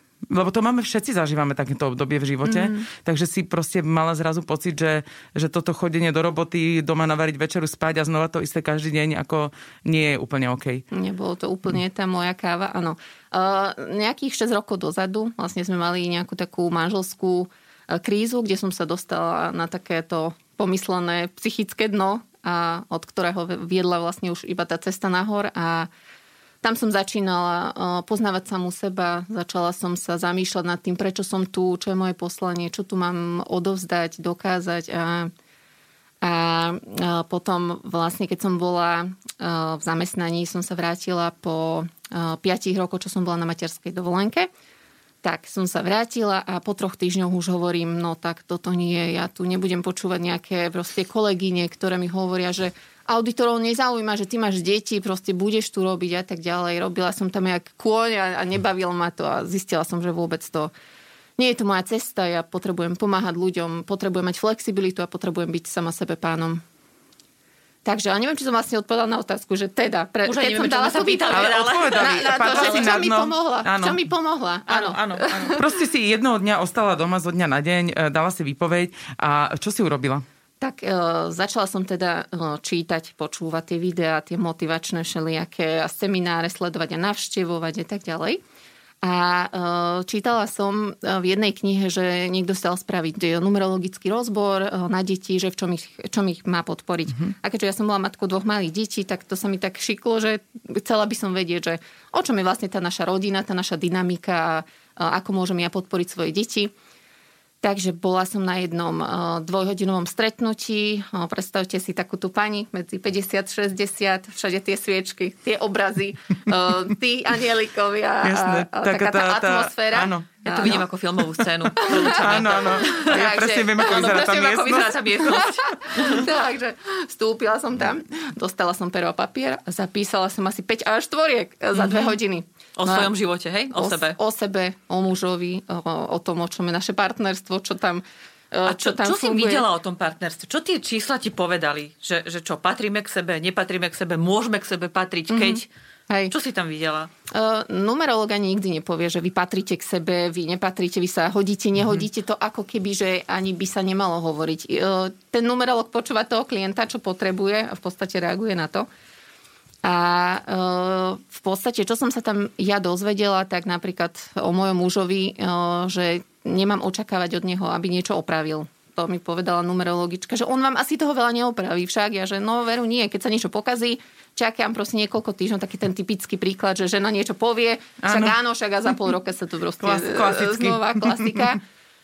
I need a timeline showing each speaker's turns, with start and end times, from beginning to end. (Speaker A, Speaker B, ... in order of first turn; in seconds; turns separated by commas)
Speaker A: 0.3-10.8, Speaker B: 2.5-2.8, Speaker B: 10.9-25.9, Speaker B: 26.6-35.3, Speaker B: 36.2-44.5, Speaker B: 45.2-60.7, Speaker B: 61.4-66.6, Speaker B: 67.8-75.7, Speaker C: 70.2-72.9, Speaker A: 71.3-74.0, Speaker C: 74.7-75.6, Speaker A: 75.5-80.2, Speaker B: 80.6-88.4, Speaker B: 89.0-106.7, Speaker B: 107.6-120.8, Speaker A: 118.2-120.8, Speaker C: 120.5-126.3, Speaker B: 121.8-124.2, Speaker A: 121.8-125.0, Speaker B: 125.2-133.1, Speaker C: 131.7-132.2, Speaker C: 132.8-134.2, Speaker B: 133.7-139.7, Speaker C: 138.7-145.7, Speaker B: 145.3-146.3, Speaker C: 146.3-147.1, Speaker B: 147.3-158.9, Speaker B: 159.8-181.6, Speaker A: 178.0-178.3, Speaker A: 179.8-181.5